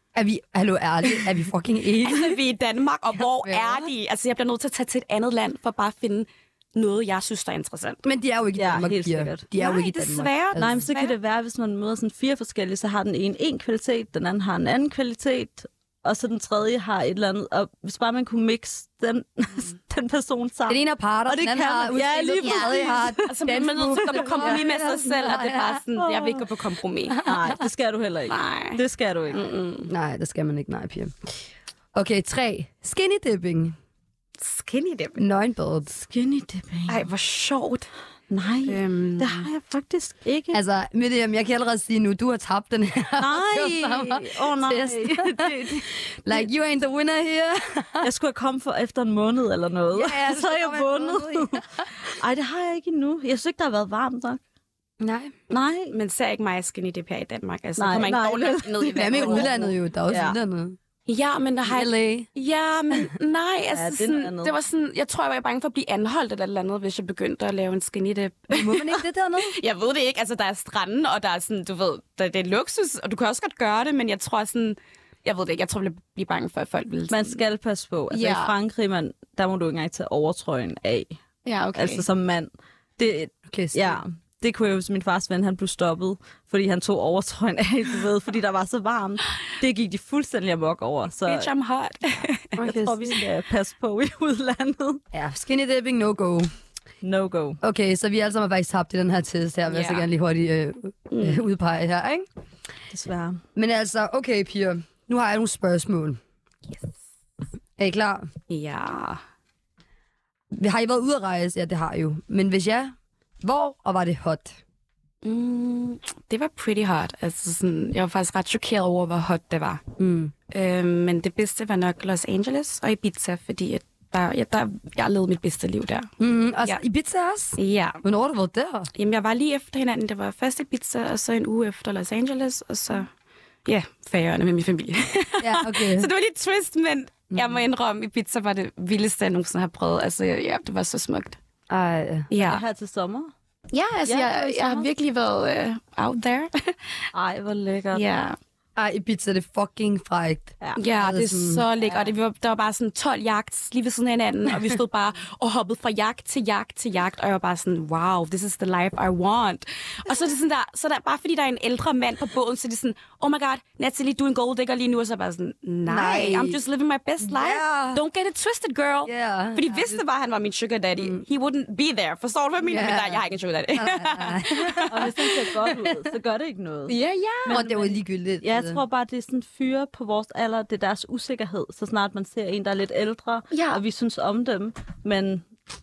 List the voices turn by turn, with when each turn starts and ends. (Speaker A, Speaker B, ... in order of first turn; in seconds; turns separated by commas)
Speaker A: 0.1-2.4, Speaker B: 2.0-8.0, Speaker A: 3.4-3.9, Speaker A: 8.0-10.9, Speaker C: 8.6-9.4, Speaker B: 9.6-11.2, Speaker C: 10.6-24.6, Speaker A: 20.7-25.8, Speaker B: 23.2-27.3, Speaker C: 26.0-26.5, Speaker C: 27.2-29.4, Speaker B: 28.3-28.8, Speaker B: 29.3-29.9, Speaker A: 29.9-31.3, Speaker A: 31.9-33.8, Speaker B: 34.4-35.2, Speaker A: 35.2-35.9, Speaker C: 35.9-37.0, Speaker B: 36.9-37.9, Speaker C: 38.3-40.6, Speaker B: 38.7-39.5, Speaker A: 40.5-48.1, Speaker C: 43.2-46.4, Speaker C: 48.0-54.4, Speaker A: 49.9-51.9, Speaker A: 55.0-55.4, Speaker C: 55.5-55.9, Speaker B: 55.9-59.7, Speaker C: 57.8-59.5, Speaker A: 59.0-60.8, Speaker C: 60.1-60.4, Speaker B: 61.1-77.4, Speaker A: 61.7-62.3, Speaker C: 63.7-64.5, Speaker A: 68.5-69.6, Speaker C: 77.1-81.2, Speaker B: 78.1-78.5, Speaker B: 81.5-82.0, Speaker C: 81.8-91.5, Speaker A: 83.5-84.0, Speaker B: 91.3-92.6, Speaker A: 92.6-93.1, Speaker C: 92.6-95.0, Speaker A: 95.1-96.5, Speaker C: 97.0-97.6, Speaker A: 97.6-102.2, Speaker B: 99.7-100.1, Speaker B: 101.1-101.4, Speaker C: 102.9-103.4, Speaker A: 103.6-106.2, Speaker A: 107.8-108.3, Speaker B: 108.5-109.2, Speaker A: 110.5-114.6, Speaker B: 115.2-119.8, Speaker A: 120.0-120.3, Speaker B: 120.5-126.1, Speaker A: 126.2-128.9, Speaker B: 127.6-128.0, Speaker B: 128.9-133.1, Speaker B: 133.7-141.4, Speaker A: 135.4-136.1, Speaker A: 141.7-142.3, Speaker B: 142.3-142.6, Speaker C: 142.4-143.3, Speaker B: 143.7-147.1, Speaker C: 144.1-144.9, Speaker C: 147.1-148.1, Speaker B: 147.9-148.4, Speaker A: 148.8-151.6, Speaker B: 150.8-175.3, Speaker C: 151.8-152.1, Speaker A: 165.9-166.6, Speaker A: 167.3-168.0, Speaker A: 169.1-170.0, Speaker A: 172.7-173.2, Speaker A: 173.7-175.1, Speaker C: 174.9-185.4, Speaker A: 175.7-176.0, Speaker B: 176.9-177.6, Speaker A: 177.5-178.8, Speaker B: 183.5-183.8